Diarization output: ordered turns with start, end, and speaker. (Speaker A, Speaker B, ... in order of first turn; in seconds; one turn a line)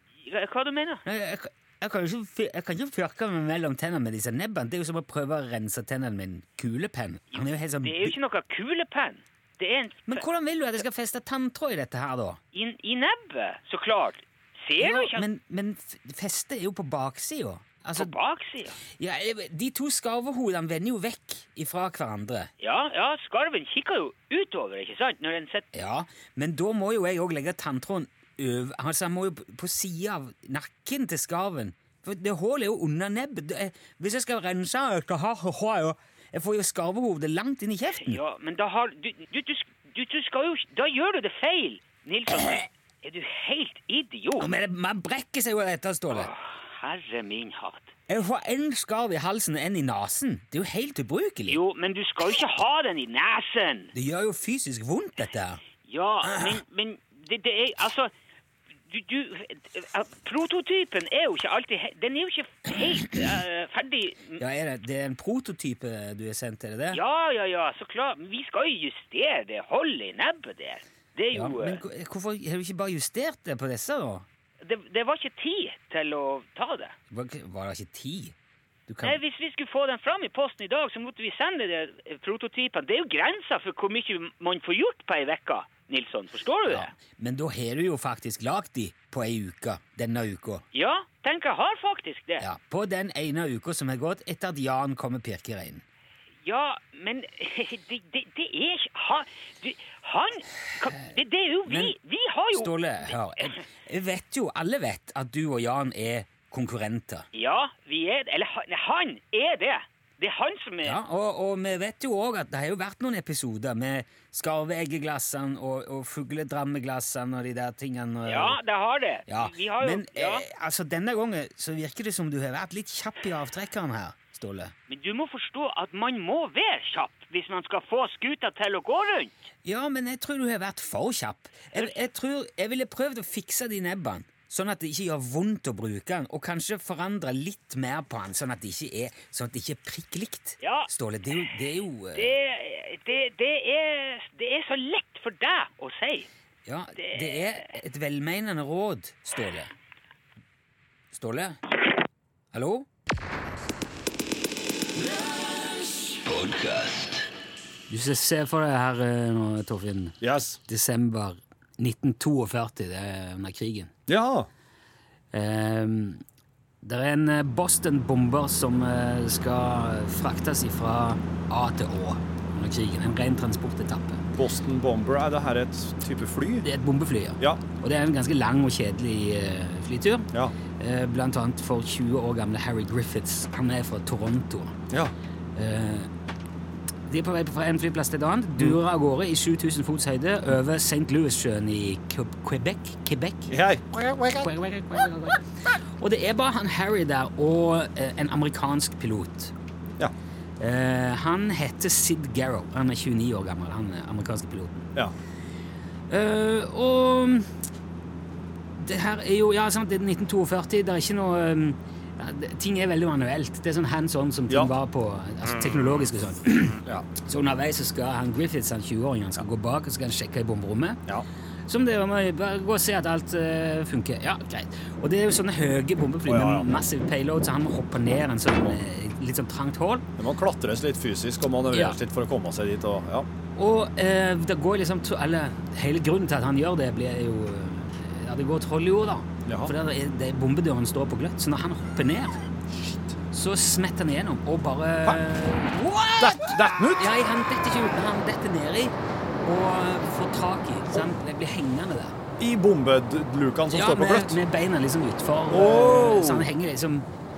Speaker A: 0.2-1.0
Speaker B: 1.0-8.2
Speaker A: 7.3-10.2
Speaker B: 10.1-12.4
Speaker A: 12.5-15.2
Speaker B: 14.8-18.1
Speaker A: 17.9-18.8
Speaker B: 19.0-22.5
Speaker A: 22.6-25.7
Speaker B: 25.7-38.2
Speaker A: 38.0-44.5
Speaker B: 44.4-46.3
Speaker A: 46.1-47.9
Speaker B: 48.1-51.6
Speaker A: 51.5-53.9
Speaker B: 53.9-55.6
Speaker A: 55.9-58.1
Speaker A: 58.9-64.4
Speaker B: 64.4-67.0
Speaker A: 66.9-71.8
Speaker B: 71.3-74.2
Speaker A: 74.6-76.9
Speaker B: 77.1-78.3
Speaker B: 78.9-79.2
Speaker A: 79.0-86.9
Speaker B: 86.7-90.6
Speaker A: 90.7-92.4
Speaker B: 92.4-95.8
Speaker A: 96.4-103.5
Speaker B: 101.7-101.9
Speaker B: 102.5-107.3
Speaker A: 107.3-111.0
Speaker B: 110.8-118.6
Speaker A: 118.2-120.4
Speaker B: 119.3-124.7
Speaker A: 124.9-129.3
Speaker B: 129.6-142.3
Speaker A: 140.6-140.9
Speaker A: 142.1-146.3
Speaker B: 146.7-149.7
Speaker A: 147.0-147.4
Speaker B: 151.1-151.6
Speaker B: 152.5-152.9
Speaker B: 157.9-163.9
Speaker C: 160.2-160.6
Speaker C: 164.1-164.5
Speaker B: 165.3-166.2
Speaker B: 166.8-174.2
Speaker C: 174.3-176.7
Speaker B: 176.6-184.8
Speaker B: 185.6-186.1
Speaker B: 187.1-193.5
Speaker C: 193.5-194.5
Speaker B: 194.4-199.5
Speaker B: 200.6-204.9
Speaker B: 206.1-207.5
Speaker B: 208.8-221.0
Speaker C: 216.8-217.1
Speaker B: 221.7-230.1
Speaker C: 226.2-226.7
Speaker C: 230.2-233.3
Speaker B: 231.7-232.0
Speaker B: 233.6-242.4
Speaker C: 239.4-239.7
Speaker C: 242.7-243.1
Speaker B: 243.3-252.2
Speaker C: 246.2-247.1
Speaker C: 252.4-254.4
Speaker B: 253.7-257.1
Speaker C: 255.5-256.5